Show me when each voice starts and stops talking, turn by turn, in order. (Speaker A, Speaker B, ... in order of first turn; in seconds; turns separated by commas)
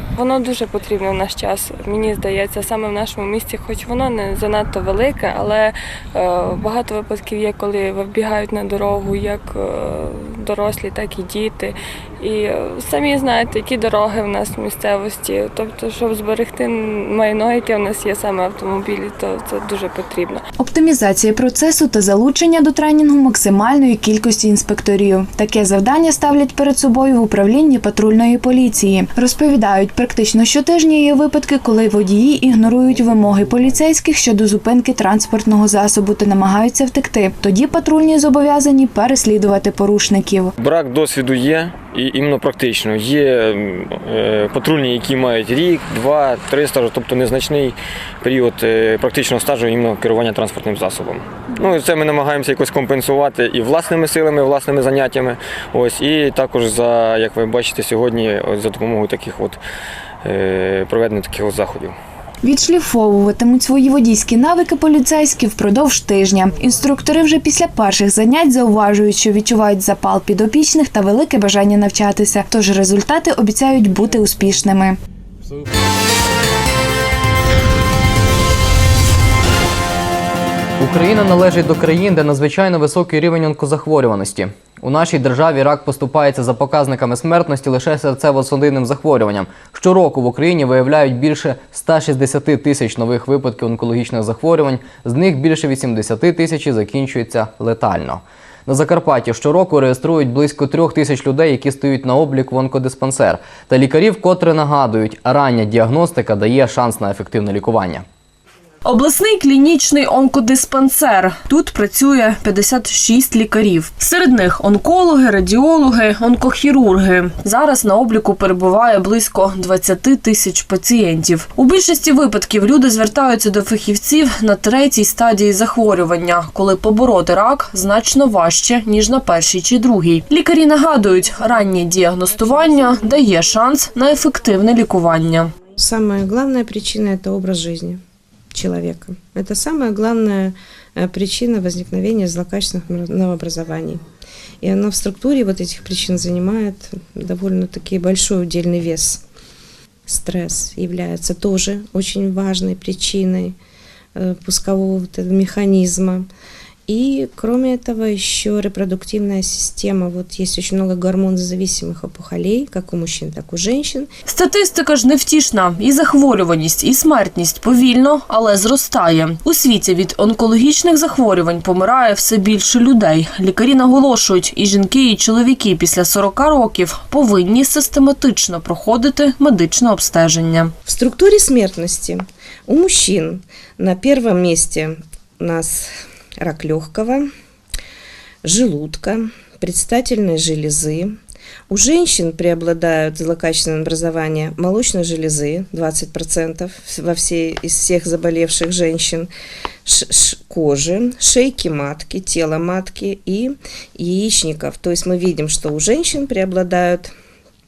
Speaker A: 0.2-20.4, Speaker B: 20.6-40.5, Speaker C: 40.6-59.6, Speaker C: 60.2-62.0, Speaker B: 62.4-75.0, Speaker D: 80.8-108.0, Speaker E: 108.8-135.5, Speaker F: 135.8-138.0, Speaker F: 138.5-144.0, Speaker F: 144.6-149.2, Speaker F: 150.1-153.6, Speaker F: 154.1-156.3, Speaker F: 156.9-164.1, Speaker E: 164.3-180.7, Speaker F: 180.8-187.3, Speaker F: 188.4-191.2, Speaker F: 191.7-199.3, Speaker F: 199.8-207.1